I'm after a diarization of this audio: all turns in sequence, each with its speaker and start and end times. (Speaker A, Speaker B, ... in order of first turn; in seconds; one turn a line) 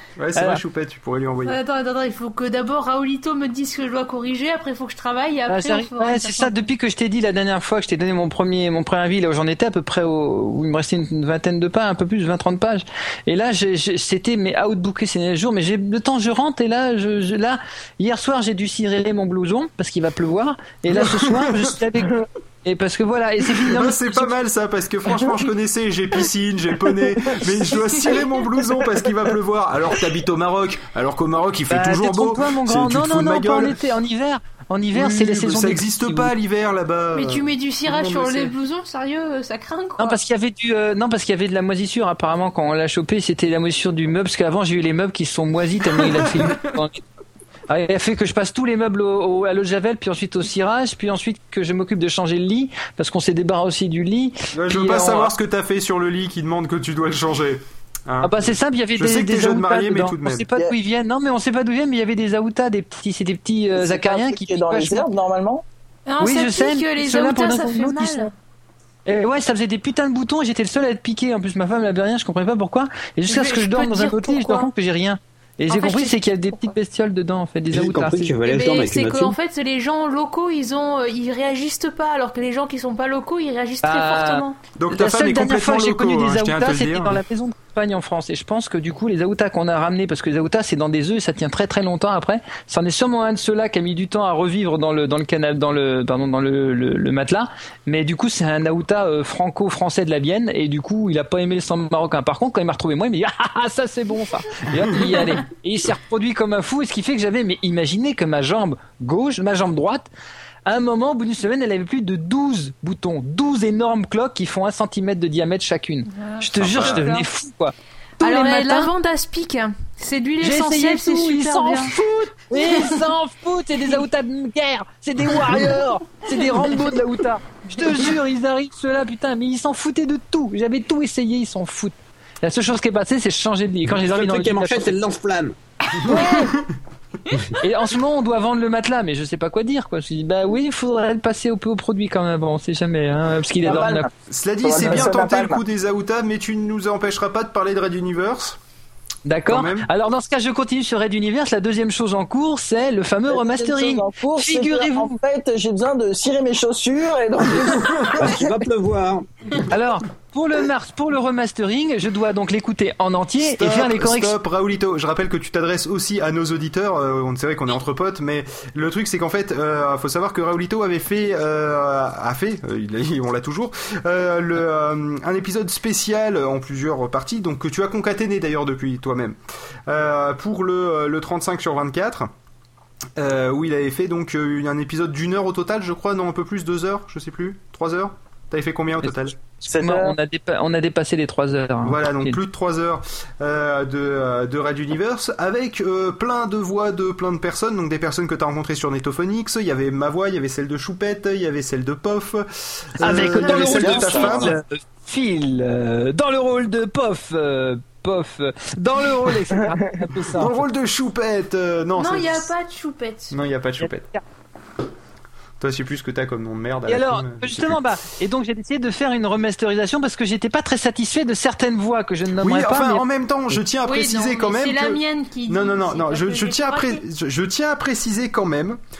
Speaker A: 0.2-1.6
Speaker B: 0.3-0.6
Speaker C: 1.4-6.5
Speaker B: 5.5-24.3
Speaker A: 20.9-21.8
Speaker A: 23.6-33.8
Speaker B: 31.7-36.3
Speaker A: 34.9-38.5
Speaker C: 37.1-40.2
Speaker B: 40.0-47.0
Speaker A: 46.1-46.6
Speaker B: 47.7-55.3
Speaker A: 54.5-60.5
Speaker B: 58.2-65.1
Speaker D: 63.7-65.6
Speaker C: 66.1-68.3
Speaker B: 66.2-68.3
Speaker B: 69.0-78.3
Speaker C: 73.3-74.7
Speaker C: 75.7-76.7
Speaker E: 77.7-79.3
Speaker C: 78.4-84.6
Speaker B: 83.8-110.1
Speaker A: 84.8-87.2
Speaker B: 110.6-118.9
Speaker C: 116.1-117.2
Speaker A: 116.6-117.0
Speaker C: 118.2-122.0
Speaker B: 120.4-134.9
Speaker C: 122.6-122.9
Speaker E: 133.9-135.6
Speaker B: 136.0-136.6
Speaker B: 137.6-144.1
Speaker D: 143.6-144.1
Speaker A: 144.3-148.6
Speaker D: 144.6-145.6
Speaker B: 149.2-155.2
Speaker A: 149.5-149.9
Speaker D: 153.3-158.6
Speaker E: 158.2-159.3
Speaker B: 159.7-164.3
Speaker A: 163.5-182.3
Speaker A: 183.2-189.3
Speaker B: 189.0-192.4
Speaker D: 189.7-190.2
Speaker A: 191.8-204.6
Speaker B: 203.0-210.6
Speaker D: 203.1-204.6
Speaker A: 210.3-212.5
Speaker C: 211.9-213.3
Speaker A: 213.3-214.1
Speaker B: 213.8-214.2
Speaker A: 215.6-217.8
Speaker B: 216.9-223.0
Speaker A: 222.4-228.8
Speaker C: 223.8-227.0